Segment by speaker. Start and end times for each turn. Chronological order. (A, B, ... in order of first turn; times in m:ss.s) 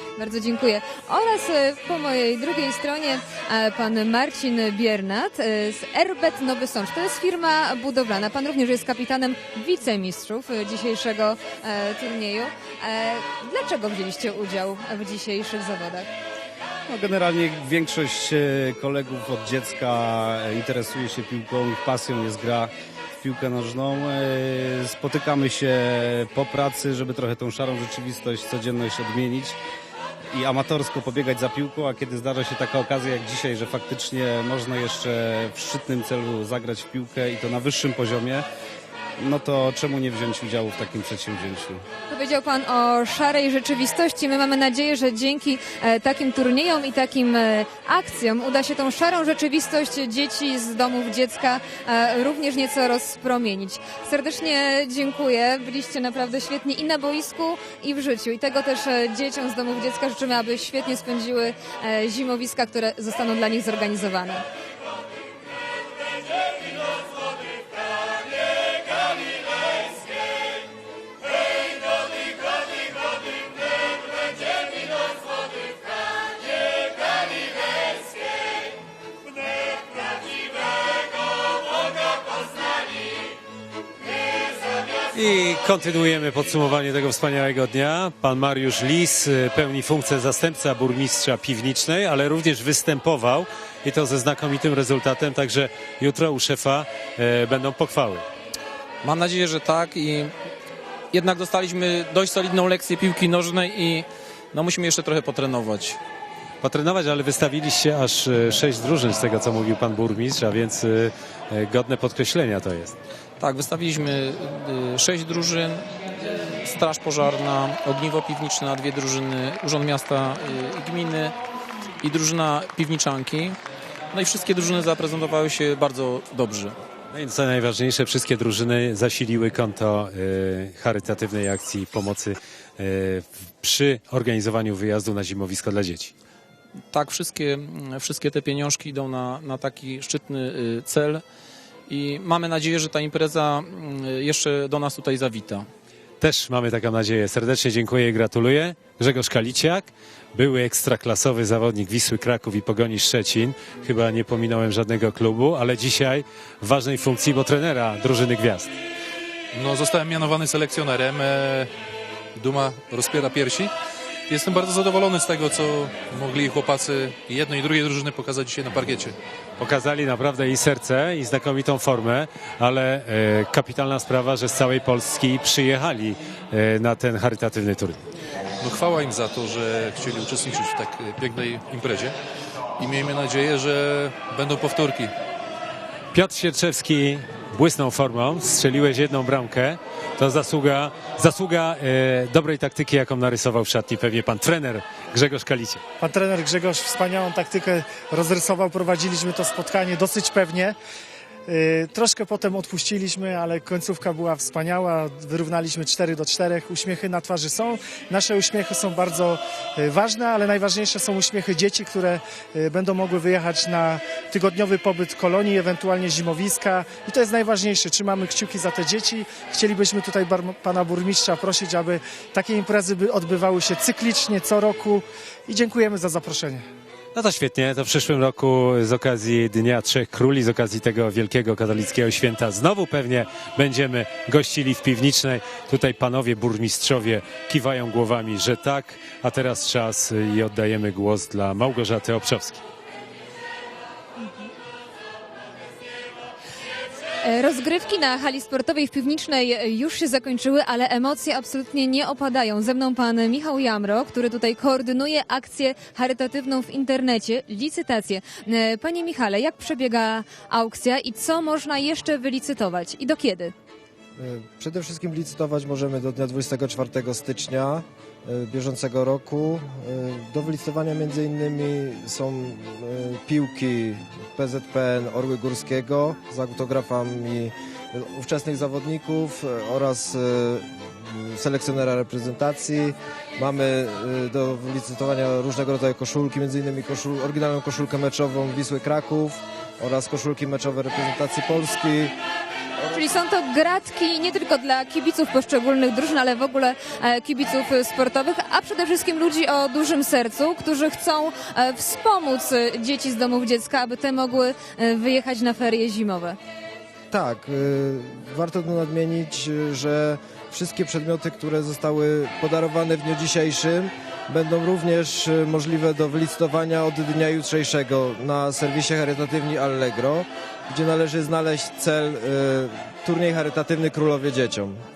0:00.2-0:16.1 A
0:16.9-0:29.6 B
0:30.3-0:38.5 B
0:39.2-0:41.8 B
0:42.1-1:04.4 A
1:25.1-1:38.2 C
1:39.0-1:40.3 D
1:41.1-1:46.0 D
1:46.6-1:53.0 C
1:53.4-2:01.4 D
2:02.0-2:03.6 D
2:04.1-2:06.8 D
2:07.1-2:16.1 C
2:16.9-2:21.2 D
2:21.9-2:25.7 D
2:26.2-2:38.7 C
2:39.5-2:41.7 E
2:42.4-2:43.7 E
2:44.3-2:49.2 E
2:49.6-2:58.0 C
2:58.6-3:02.2 E
3:02.8-3:05.1 E
3:06.1-3:15.8 C
3:16.0-3:20.8 F
3:21.5-3:46.6 F
3:47.1-4:02.6 C
4:07.2-4:23.5 A
4:24.2-4:52.2 G
4:52.9-5:06.4 A
5:07.1-5:24.8 G